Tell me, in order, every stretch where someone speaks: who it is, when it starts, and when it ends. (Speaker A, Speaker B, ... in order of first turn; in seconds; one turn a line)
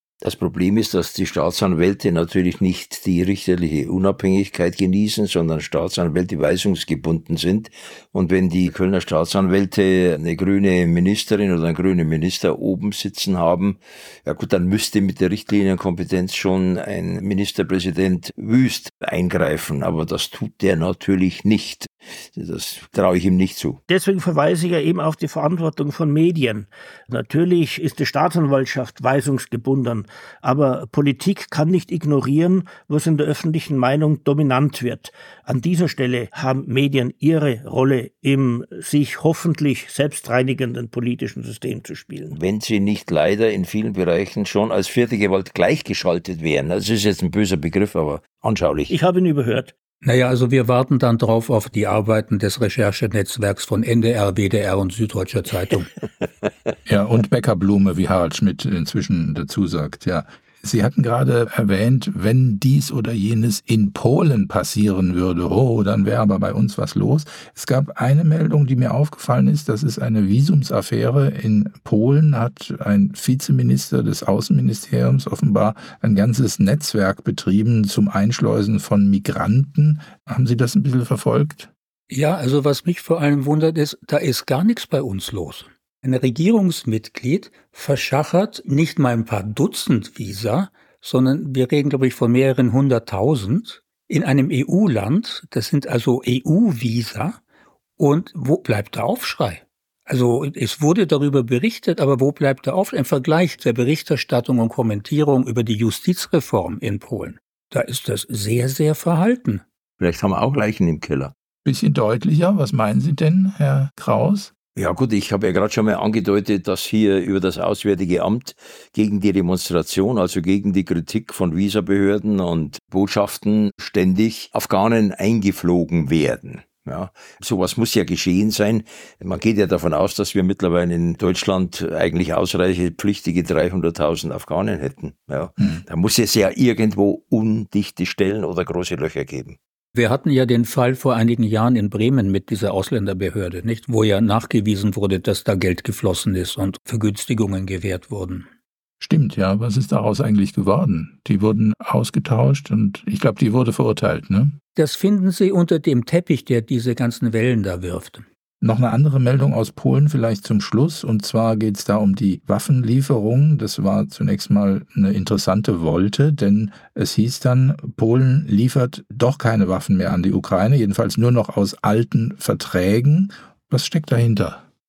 Speaker A: 0.2-23.8
Speaker B: 23.9-42.4
Speaker A: 42.3-48.9
Speaker B: 48.9-49.7
Speaker C: 50.0-55.9
Speaker D: 56.9-81.7
Speaker C: 82.1-97.4
Speaker C: 98.0-109.6
Speaker A: 110.0-111.3
Speaker D: 111.6-114.5
Speaker A: 114.8-139.6
Speaker C: 139.9-148.5
Speaker D: 149.0-154.6
Speaker C: 154.8-158.2
Speaker D: 158.6-174.6